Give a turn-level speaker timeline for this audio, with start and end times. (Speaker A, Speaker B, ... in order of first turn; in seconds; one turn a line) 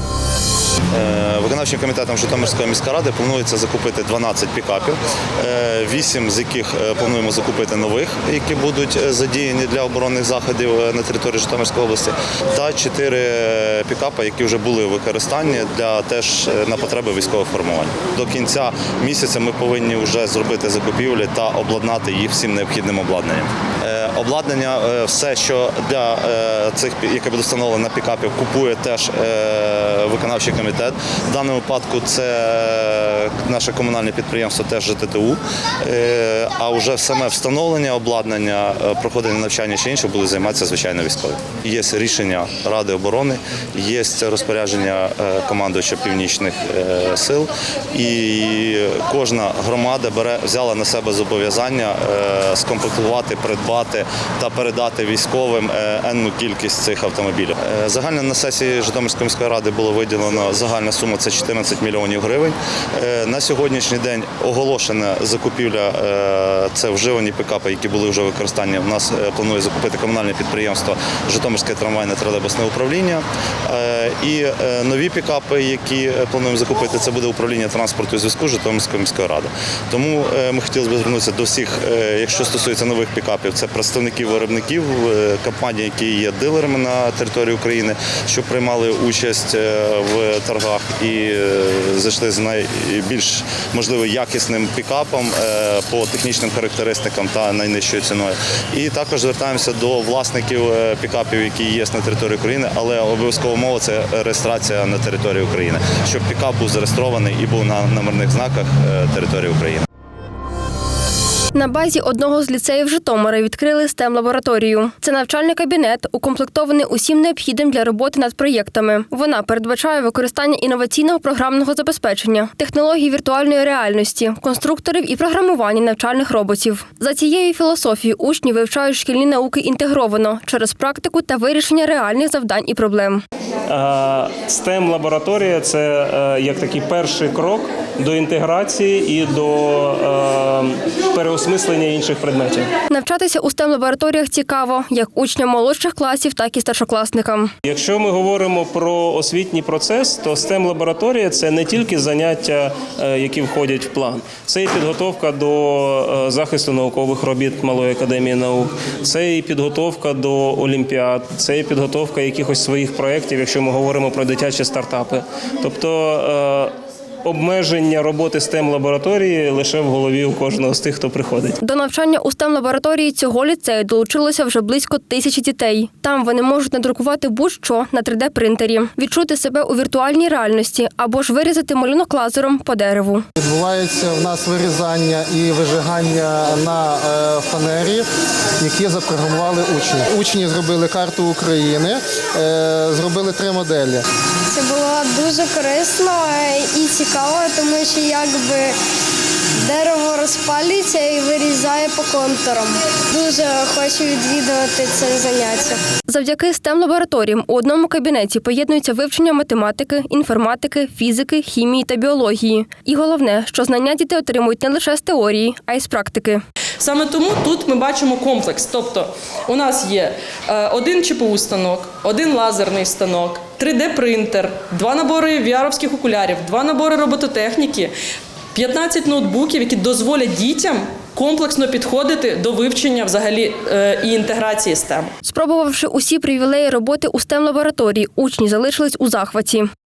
Speaker A: 0.9-109.9
Speaker B: 111.5-133.2
Speaker C: 133.7-142.7
Speaker B: 142.9-147.5
Speaker C: 147.7-166.7
Speaker C: 167.2-171.6
Speaker B: 171.6-183.3
Speaker D: 183.4-188.1
Speaker D: 188.6-194.0
Speaker E: 194.5-198.7
Speaker E: 199.6-205.8
Speaker B: 206.1-216.4
Speaker F: 216.8-227.9
Speaker F: 228.6-235.1
Speaker B: 235.2-239.7